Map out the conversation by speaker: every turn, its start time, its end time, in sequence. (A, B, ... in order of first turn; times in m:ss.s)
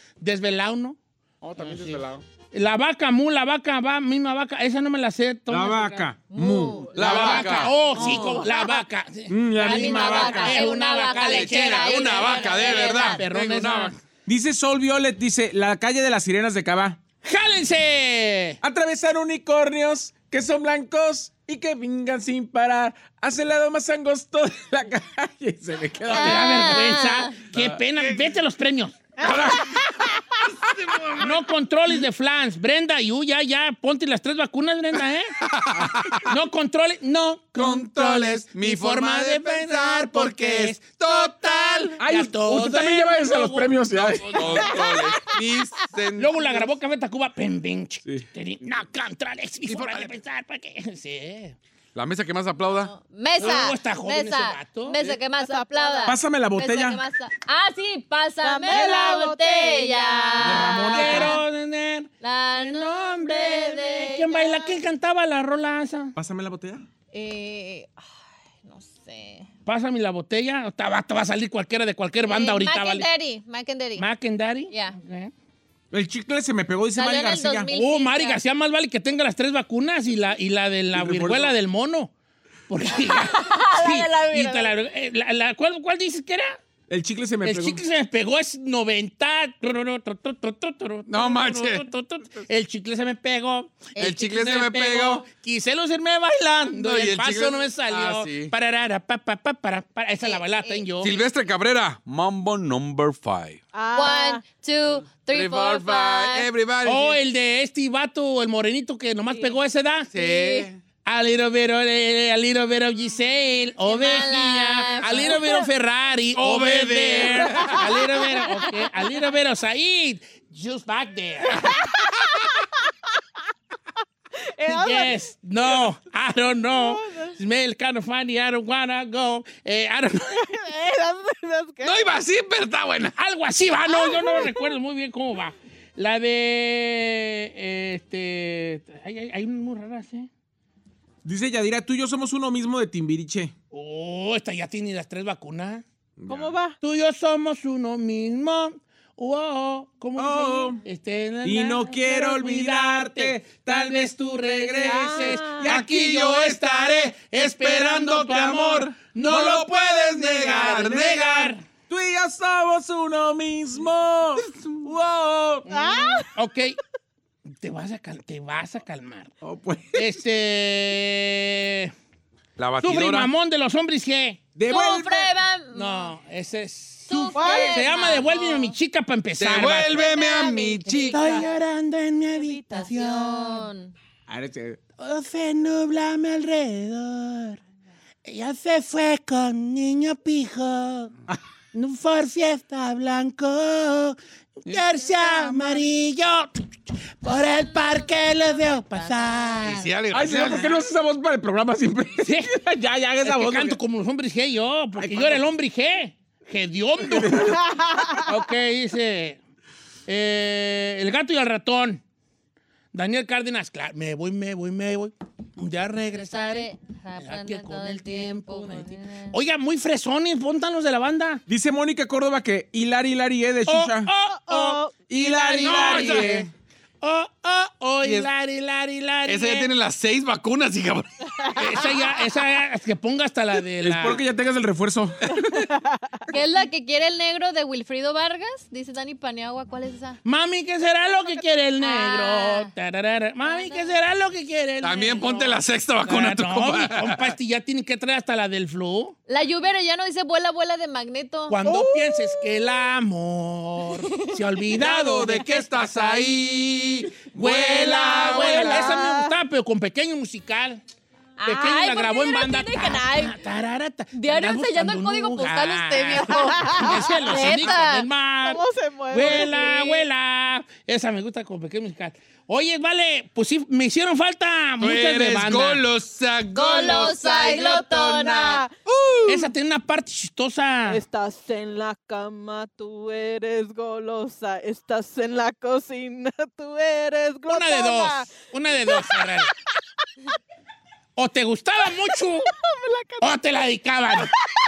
0:00.2-0:01.0 A
0:01.4-0:02.2 B
0:01.6-0:06.1 A
0:05.5-0:08.2 C
0:06.3-0:08.8 D
0:07.0-0:08.5 B
0:07.0-0:14.0 A
0:09.3-0:10.7 C
0:09.6-0:13.2 D
0:11.2-0:14.0 B
0:14.3-0:17.0 C
0:17.2-0:18.6 A
0:18.6-0:26.9 C
0:26.1-0:29.1 A
0:26.1-0:27.3 D
0:27.5-0:27.8 C
0:29.2-0:31.4 B
0:31.2-0:35.4 A
0:35.4-0:36.3 B
0:36.2-0:45.3 A
0:37.6-0:41.9 B
0:42.0-0:44.8 C
0:44.1-0:46.7 B
0:46.1-0:51.6 A
0:49.7-0:50.2 B
0:52.0-0:52.9 B
0:52.9-1:01.4 D
0:53.4-0:55.0 A
0:55.3-0:56.2 E
0:56.1-0:57.0 C
0:58.4-1:00.9 E
0:58.7-0:59.1 A
1:00.4-1:01.4 C
1:00.5-1:06.1 A
1:02.2-1:04.6 D
1:03.5-1:04.8 E
1:06.2-1:06.9 C
1:07.1-1:07.9 D
1:08.6-1:09.5 D
1:09.6-1:13.1 A
1:12.2-1:14.1 D
1:14.0-1:15.3 A
1:14.7-1:15.0 D
1:15.9-1:17.7 C
1:17.0-1:18.4 D
1:17.7-1:22.1 A
1:20.9-1:21.6 C
1:22.7-1:26.6 A
1:22.9-1:24.7 D
1:26.9-1:27.8 C
1:27.4-1:41.2 A
1:31.1-1:31.8 B
1:34.0-1:35.3 B
1:36.8-1:38.5 B
1:40.2-1:40.9 D
1:41.0-1:43.6 B
1:43.7-1:44.4 E
1:43.9-1:46.5 D
1:45.2-1:47.2 B
1:46.8-1:50.1 A
1:50.1-1:50.8 B
1:50.2-1:50.7 D
1:51.0-2:01.8 A
1:53.9-1:55.5 D
1:55.3-1:55.5 E
1:56.4-1:58.1 B
1:57.7-1:59.3 E
2:04.6-2:05.3 E
2:04.7-2:10.5 A
2:06.6-2:07.4 E
2:10.3-2:12.1 E
2:11.8-2:13.1 B
2:13.2-2:20.3 A
2:13.9-2:14.7 E
2:21.2-2:23.5 C
2:23.7-2:25.8 A
2:26.2-2:26.6 C
2:26.3-2:26.8 E
2:26.8-2:41.6 A
2:30.2-2:30.8 C
2:31.4-2:35.9 C
2:34.9-2:35.6 E
2:35.6-2:41.5 B
2:40.6-2:41.1 C
2:41.9-2:45.7 C
2:45.7-2:46.4 E
2:46.2-2:46.8 A
2:47.5-2:49.3 A
2:49.4-2:50.1 C
2:49.9-2:51.9 A
2:52.6-2:53.3 B
2:52.8-2:54.5 A
2:54.6-2:55.3 C
2:54.7-2:56.1 D
2:55.7-3:00.1 A
2:57.1-2:58.8 D
2:57.3-2:58.3 E
2:59.4-3:01.4 B
2:59.9-3:01.4 D
3:00.9-3:01.6 E
3:01.1-3:03.3 A
3:02.3-3:03.6 E
3:02.8-3:03.9 D
3:04.3-3:04.8 C
3:05.0-3:07.6 A
3:08.2-3:11.1 A
3:11.7-3:16.7 A
3:15.2-3:15.6 E
3:17.2-3:20.0 A
3:18.9-3:19.8 D
3:19.6-3:20.8 B
3:20.1-3:23.8 C
3:22.2-3:22.5 A
3:23.2-3:27.6 A
3:25.0-3:25.4 C
3:27.0-3:27.6 C
3:27.6-3:28.2 E
3:28.1-3:29.4 A
3:30.1-3:32.0 A
3:32.9-3:41.4 A
3:36.2-3:39.4 D
3:41.5-3:44.1 C
3:43.6-3:46.5 A
3:44.3-3:45.6 E
3:45.1-3:46.5 C
3:45.6-3:46.5 B
3:47.0-3:49.7 A
3:48.0-3:48.3 B
3:49.3-3:51.9 B
3:51.4-3:52.0 E
3:51.6-3:54.2 A
3:53.8-3:55.7 C
3:55.3-3:56.4 E
3:56.3-4:00.2 D
4:00.2-4:09.2 A
4:01.8-4:02.7 D
4:03.4-4:03.9 D
4:04.8-4:07.3 B
4:09.3-4:12.0 D
4:11.5-4:16.4 A
4:13.9-4:14.6 D
4:14.7-4:19.0 B
4:17.3-4:20.8 A
4:18.3-4:19.3 E
4:21.4-4:23.4 D
4:21.4-4:35.8 A
4:24.1-4:28.1 D
4:26.2-4:27.7 E
4:28.4-4:30.0 E
4:29.2-4:30.0 D
4:34.8-4:39.5 B
4:36.5-4:38.6 D
4:37.4-4:37.9 E
4:38.4-4:38.7 E
4:39.3-4:41.0 A
4:40.9-4:49.4 E
4:47.5-4:49.5 A
4:51.2-4:52.5 A
4:51.9-4:53.4 E
4:53.2-4:54.3 A